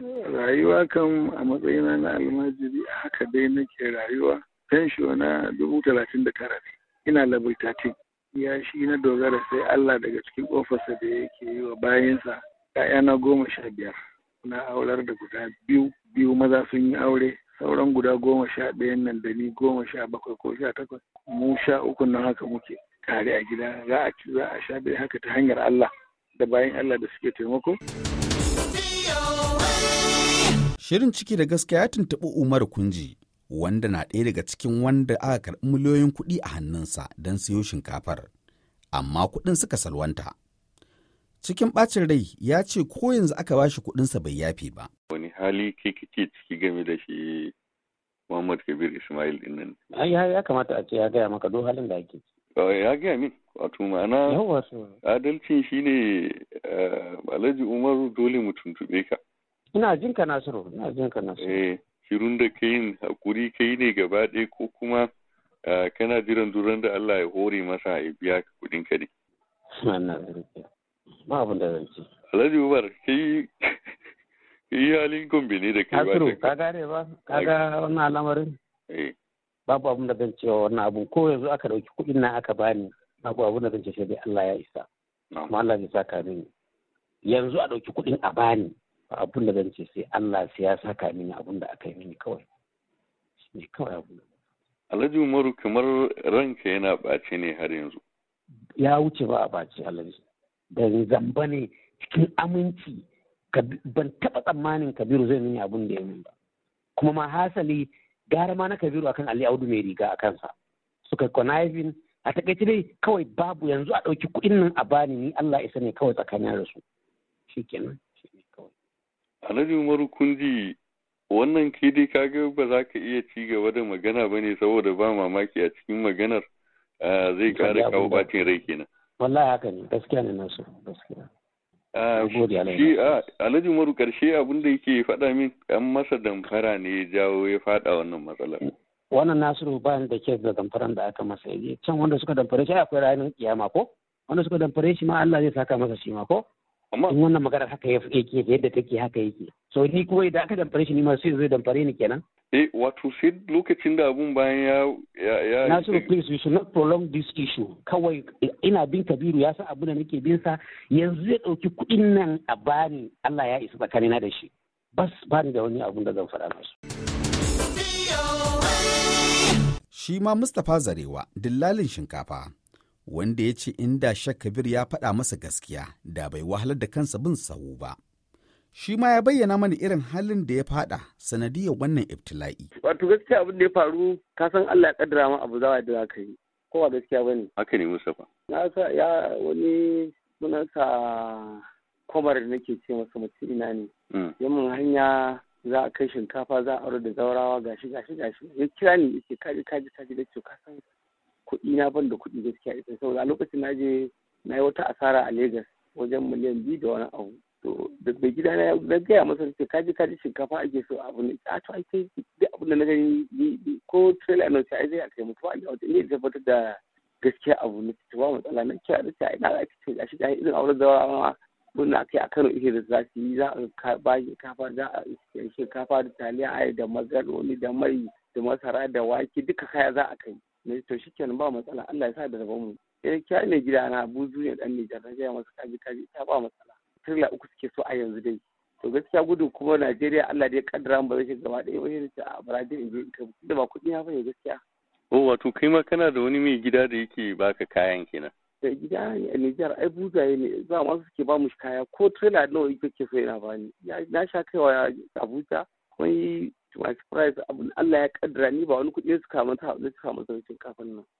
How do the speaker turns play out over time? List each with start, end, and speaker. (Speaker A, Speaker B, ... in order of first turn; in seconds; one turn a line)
Speaker A: 0.2-27.8
Speaker B: 30.8-38.3
Speaker B: 38.9-40.3
Speaker B: 41.4-44.9
Speaker C: 45.1-47.5
Speaker C: 48.3-49.8
Speaker D: 49.9-52.2
Speaker C: 52.5-54.4
Speaker D: 54.3-55.0
Speaker C: 55.0-59.2
Speaker D: 59.7-61.6
Speaker C: 61.4-65.1
Speaker C: 65.7-69.1
Speaker D: 69.8-70.7
Speaker D: 71.3-72.1
Speaker C: 72.3-73.9
Speaker C: 74.7-76.5
Speaker D: 75.9-78.5
Speaker D: 79.7-84.8
Speaker D: 85.5-86.5
Speaker D: 87.3-92.4
Speaker D: 93.5-94.2
Speaker C: 94.9-98.0
Speaker D: 98.8-100.2
Speaker D: 100.7-106.3
Speaker D: 107.0-110.5
Speaker D: 111.1-116.8
Speaker D: 117.5-118.7
Speaker C: 119.4-120.8
Speaker C: 121.3-126.4
Speaker C: 127.0-128.8
Speaker D: 127.5-128.4
Speaker D: 129.2-131.3
Speaker C: 131.9-138.6
Speaker D: 132.1-133.2
Speaker D: 139.1-146.4
Speaker C: 146.9-147.2
Speaker D: 147.1-152.2
Speaker C: 152.5-156.1
Speaker D: 155.7-166.7
Speaker B: 169.9-172.5
Speaker B: 173.1-178.0
Speaker B: 178.7-182.7
Speaker E: 182.8-187.5
Speaker C: 187.6-188.2
Speaker E: 188.5-200.8
Speaker E: 201.4-244.6
Speaker C: 245.1-248.3
Speaker E: 248.6-261.0